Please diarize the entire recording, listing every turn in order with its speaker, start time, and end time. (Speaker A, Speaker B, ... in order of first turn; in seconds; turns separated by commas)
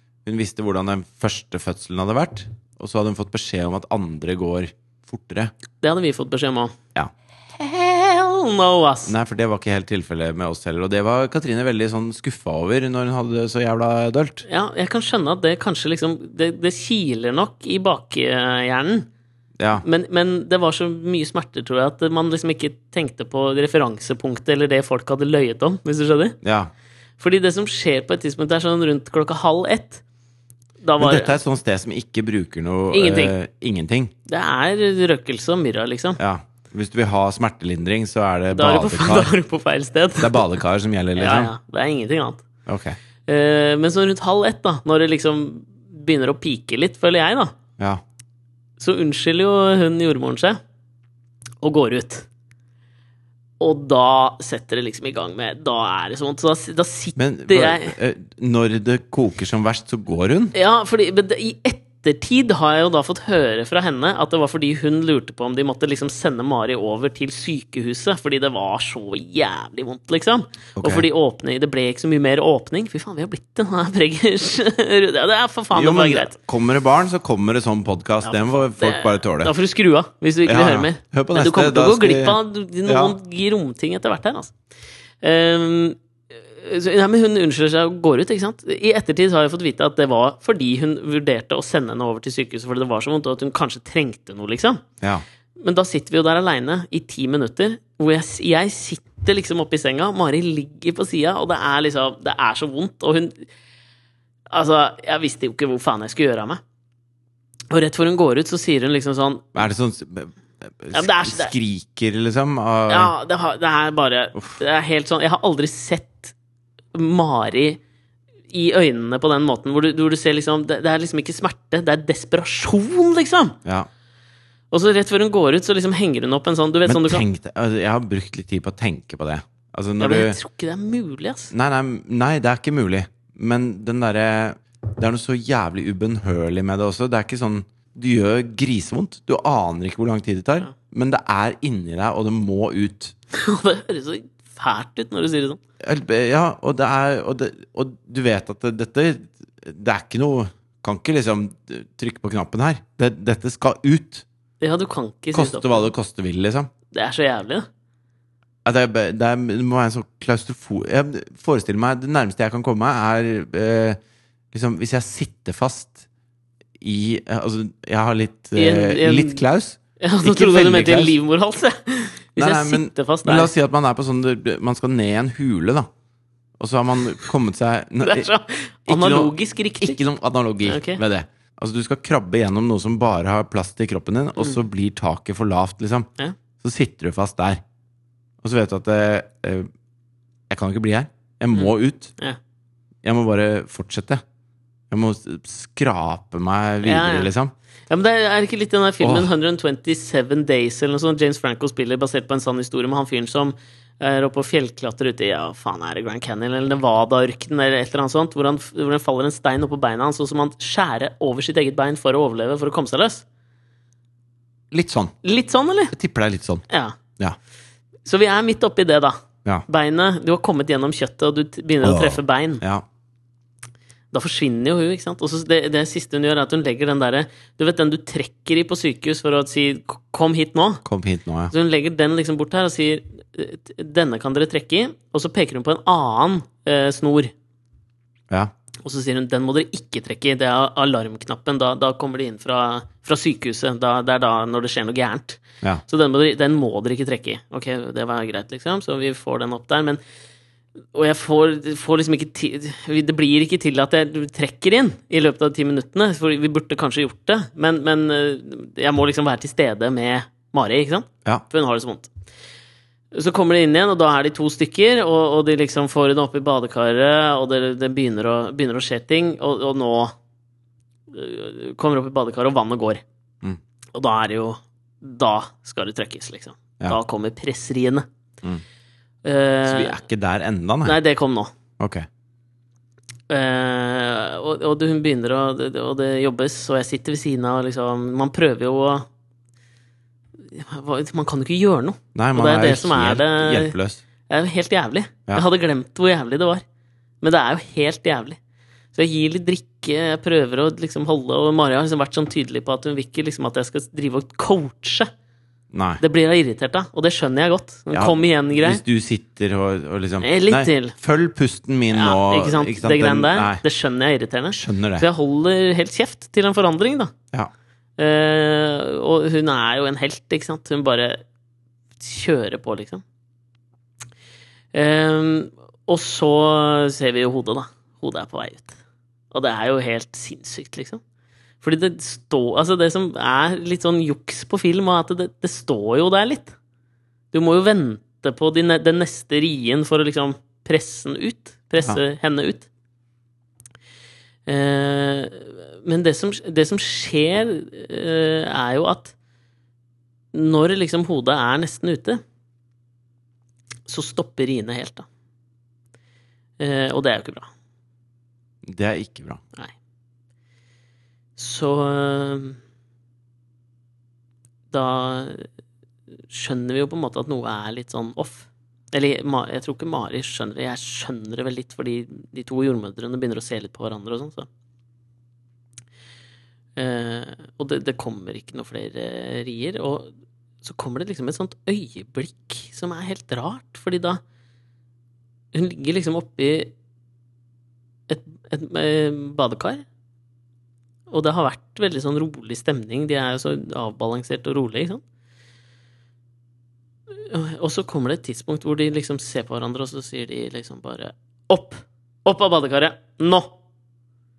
Speaker A: 0.2-5.5, Speaker B: 5.8-6.7, Speaker B: 7.6-9.1, Speaker A: 9.1-14.4, Speaker B: 14.4-19.1, Speaker A: 19.6-19.8, Speaker B: 19.8-26.4, Speaker A: 26.4-26.7, Speaker B: 27.2-30.0, Speaker B: 30.8-31.4, Speaker A: 31.0-34.1, Speaker B: 32.9-33.3, Speaker B: 34.3-36.2, Speaker A: 36.2-39.3, Speaker B: 38.5-40.5, Speaker A: 40.2-41.5, Speaker B: 41.1-42.4, Speaker A: 42.7-43.0, Speaker B: 43.3-47.5, Speaker B: 48.8-50.6, Speaker B: 51.6-52.3, Speaker B: 53.6-58.0, Speaker A: 57.2-60.5, Speaker B: 60.5-76.3, Speaker A: 70.8-71.0, Speaker A: 75.7-79.5, Speaker B: 78.2-84.5, Speaker A: 80.4-83.2, Speaker B: 85.2-94.8, Speaker B: 95.6-103.5, Speaker B: 104.5-106.6, Speaker B: 107.7-109.7, Speaker A: 109.5-113.1, Speaker B: 110.9-111.5, Speaker B: 112.9-116.3, Speaker B: 116.9-117.8, Speaker B: 118.5-123.6, Speaker B: 124.7-127.2, Speaker A: 126.8-130.4, Speaker B: 130.0-131.5, Speaker A: 131.5-143.1, Speaker B: 143.3-145.6, Speaker A: 145.8-154.2, Speaker B: 154.6-155.9, Speaker A: 155.3-156.7, Speaker B: 156.9-157.7, Speaker A: 158.6-164.0, Speaker A: 164.5-166.0, Speaker A: 166.8-171.2, Speaker B: 168.5-169.4, Speaker B: 170.0-173.5, Speaker A: 172.4-175.9, Speaker A: 176.6-178.3, Speaker B: 178.0-180.0, Speaker A: 178.8-186.1, Speaker B: 180.6-181.0, Speaker A: 186.6-187.6, Speaker A: 188.4-189.7, Speaker A: 190.5-192.1, Speaker B: 191.5-192.4, Speaker A: 193.0-194.2, Speaker A: 194.9-197.5, Speaker B: 196.8-197.3, Speaker B: 197.9-213.2, Speaker A: 199.0-199.3, Speaker A: 214.7-215.1, Speaker B: 215.2-215.9, Speaker A: 215.9-216.6, Speaker B: 216.7-217.0, Speaker B: 218.1-222.6, Speaker A: 221.8-222.8, Speaker B: 224.1-230.8, Speaker A: 230.8-231.5, Speaker B: 231.5-237.3, Speaker B: 238.8-250.0, Speaker B: 250.9-262.1, Speaker B: 263.1-270.1, Speaker B: 271.1-273.0, Speaker B: 273.9-278.1, Speaker B: 279.2-280.0, Speaker A: 279.6-281.0, Speaker B: 280.8-281.5, Speaker A: 281.8-282.1, Speaker B: 283.3-289.1, Speaker B: 290.5-293.7, Speaker A: 292.1-294.0, Speaker B: 294.3-296.6, Speaker B: 297.2-298.4, Speaker B: 298.9-305.1, Speaker A: 305.7-306.0, Speaker B: 306.0-308.8, Speaker A: 307.9-313.6, Speaker B: 310.2-310.9, Speaker B: 311.9-317.1, Speaker A: 314.5-315.1, Speaker B: 318.0-321.2, Speaker B: 322.0-323.0, Speaker B: 324.7-328.8, Speaker B: 329.3-331.0, Speaker B: 331.6-336.5, Speaker B: 337.3-342.7, Speaker B: 344.5-349.1, Speaker B: 350.3-352.2, Speaker B: 353.9-355.1, Speaker B: 356.6-357.5, Speaker A: 358.6-359.4, Speaker B: 361.4-362.6, Speaker B: 364.7-365.5, Speaker B: 366.3-374.5, Speaker B: 376.8-380.1, Speaker B: 380.6-384.2, Speaker B: 385.5-386.7, Speaker B: 388.1-389.8, Speaker B: 391.1-395.0, Speaker B: 397.2-403.5